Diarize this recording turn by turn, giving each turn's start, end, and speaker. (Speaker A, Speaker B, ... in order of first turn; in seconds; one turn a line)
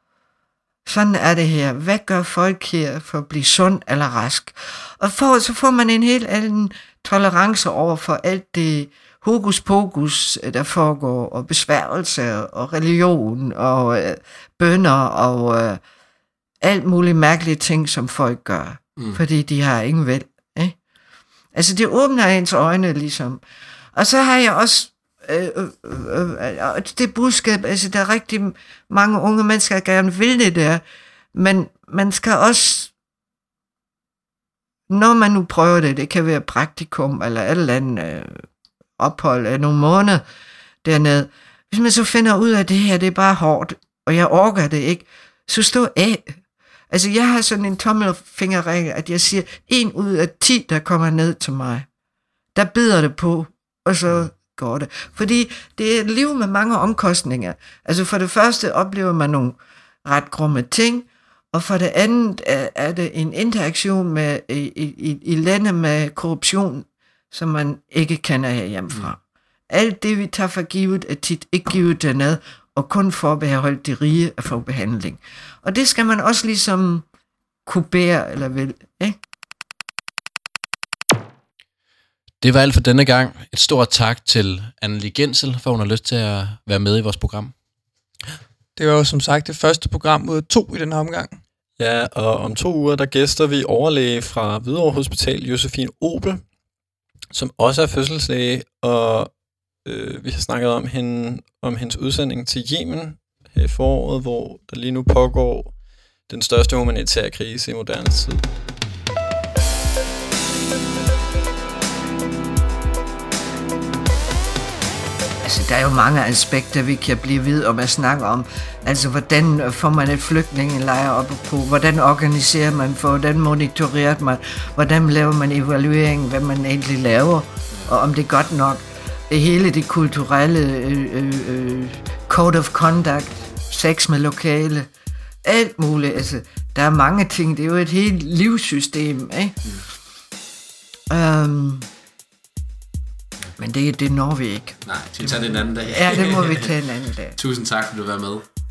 Speaker A: 0.8-15.8
Speaker A: 16.6-20.8
Speaker A: 21.5-23.4
Speaker A: 23.9-30.8
Speaker A: 31.3-32.9
Speaker A: 34.9-38.5
Speaker A: 39.0-40.2
Speaker A: 40.8-46.4
Speaker A: 46.9-51.9
Speaker A: 52.5-69.2
Speaker A: 69.7-77.0
Speaker A: 77.6-79.2
Speaker B: 82.4-87.5
Speaker C: 88.8-91.4
Speaker D: 91.8-96.4
Speaker D: 97.3-99.3
Speaker D: 99.8-108.4
Speaker A: 115.4-134.9
Speaker A: 135.4-139.6
Speaker A: 141.1-141.9
Speaker A: 143.6-147.4
Speaker E: 144.8-146.7
Speaker E: 147.3-148.4